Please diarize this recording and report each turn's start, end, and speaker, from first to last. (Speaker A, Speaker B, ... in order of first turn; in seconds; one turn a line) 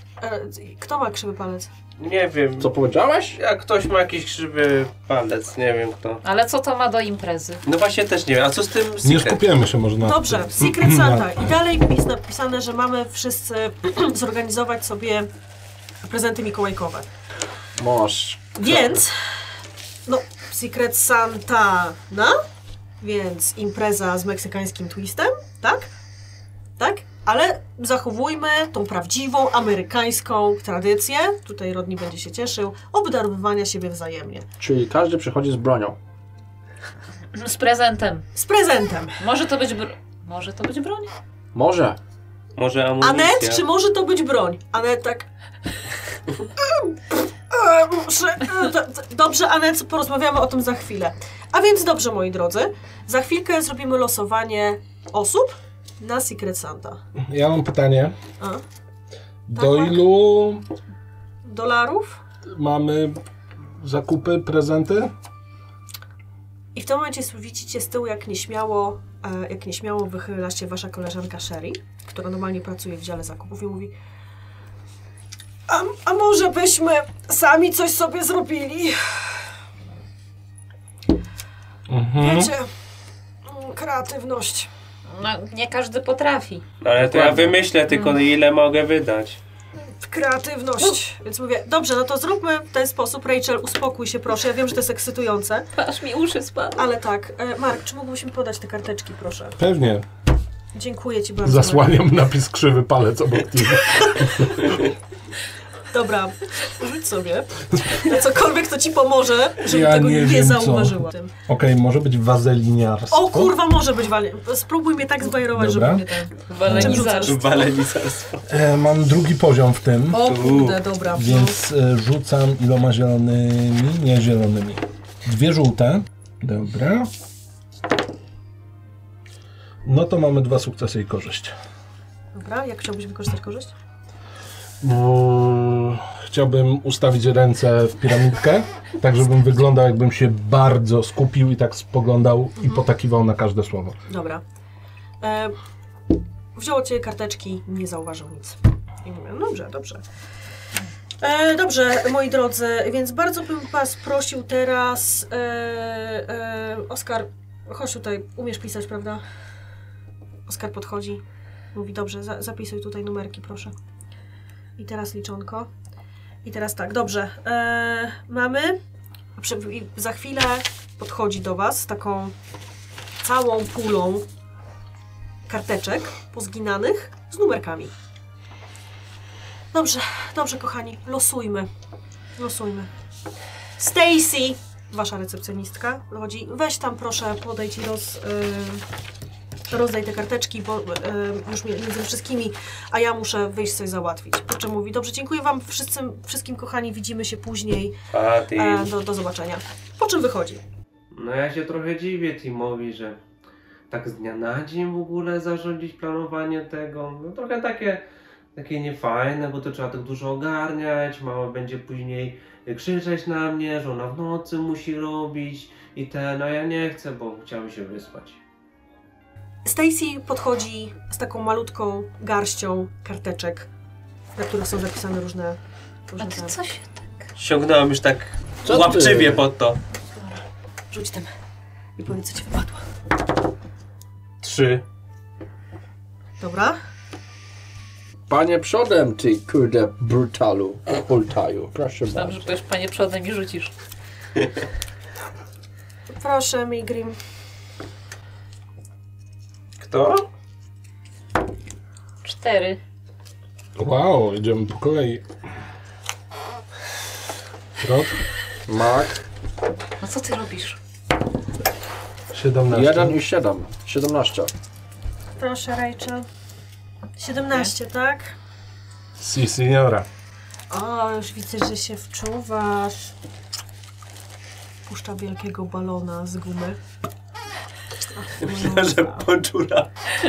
Speaker A: 0.2-1.7
Speaker B: 2.0-2.7
Speaker C: 2.6-3.4
Speaker B: 3.4-6.2
Speaker D: 6.2-7.6
Speaker B: 7.6-9.4
Speaker E: 9.0-11.5
Speaker A: 10.0-15.3
Speaker A: 16.0-17.1
Speaker C: 17.8-19.0
Speaker A: 18.6-19.5
Speaker A: 20.1-22.4
Speaker A: 23.0-25.9
Speaker A: 26.8-34.5
Speaker C: 34.6-36.0
Speaker D: 37.3-38.3
Speaker A: 38.4-39.2
Speaker D: 39.2-41.1
Speaker C: 41.5-42.0
Speaker B: 42.6-43.6
Speaker A: 43.0-45.3
Speaker A: 47.5-57.0
Speaker E: 57.3-58.2
Speaker E: 59.5-60.6
Speaker A: 59.5-60.0
Speaker A: 61.5-62.2
Speaker E: 62.5-63.2
Speaker E: 63.8-65.1
Speaker A: 66.8-73.9
Speaker A: 75.7-79.5
Speaker E: 81.9-82.5
Speaker A: 82.2-82.7
Speaker A: 83.5-84.7
Speaker D: 85.1-86.6
Speaker B: 86.8-89.4
Speaker E: 87.0-87.5
Speaker D: 87.9-88.2
Speaker A: 90.0-95.7
Speaker D: 95.8-96.9
Speaker A: 96.8-99.6
Speaker E: 99.6-100.1
Speaker A: 100.7-102.0
Speaker E: 101.5-104.7
Speaker A: 105.9-111.3
Speaker E: 109.6-113.6
Speaker A: 113.1-117.7
Speaker E: 115.4-116.1
Speaker D: 116.5-117.5
Speaker E: 116.6-117.1
Speaker B: 117.1-118.5
Speaker E: 118.5-120.2
Speaker A: 120.1-121.6
Speaker B: 120.2-120.8
Speaker E: 121.1-127.1
Speaker E: 129.8-131.5
Speaker A: 132.3-133.7
Speaker E: 134.8-144.0
Speaker A: 142.6-142.8
Speaker A: 144.1-144.4
Speaker A: 145.2-145.6
Speaker A: 146.6-150.0
Speaker A: 151.2-159.2
Speaker A: 160.5-161.2
Speaker A: 161.7-163.7
Speaker A: 164.8-165.7
Speaker A: 166.4-168.8
Speaker A: 169.4-172.3
Speaker A: 173.2-174.2
Speaker A: 175.5-177.9
Speaker A: 179.7-181.7
Speaker A: 182.4-182.9
Speaker A: 183.8-188.8
Speaker A: 189.7-198.0
Speaker B: 198.1-198.9
Speaker A: 198.5-200.6
Speaker B: 201.1-203.2
Speaker B: 203.9-208.0
Speaker B: 208.6-218.4
Speaker A: 219.6-223.7
Speaker A: 224.4-226.6
Speaker D: 226.2-227.3
Speaker B: 227.4-229.8
Speaker C: 228.6-229.4
Speaker A: 230.9-231.3
Speaker A: 232.0-232.8
Speaker B: 234.4-234.8
Speaker A: 236.4-236.8
Speaker C: 238.3-242.5
Speaker D: 242.1-243.7
Speaker A: 246.1-247.2
Speaker B: 249.8-250.3
Speaker D: 252.2-252.8
Speaker E: 253.8-255.2
Speaker E: 257.8-258.2
Speaker C: 258.7-259.2
Speaker D: 260.0-260.8
Speaker E: 262.3-263.2
Speaker C: 262.7-264.5
Speaker A: 265.4-266.3
Speaker A: 267.2-268.4
Speaker E: 269.2-270.1
Speaker A: 270.7-273.1
Speaker A: 274.9-276.8
Speaker A: 278.1-279.3
Speaker B: 278.4-279.9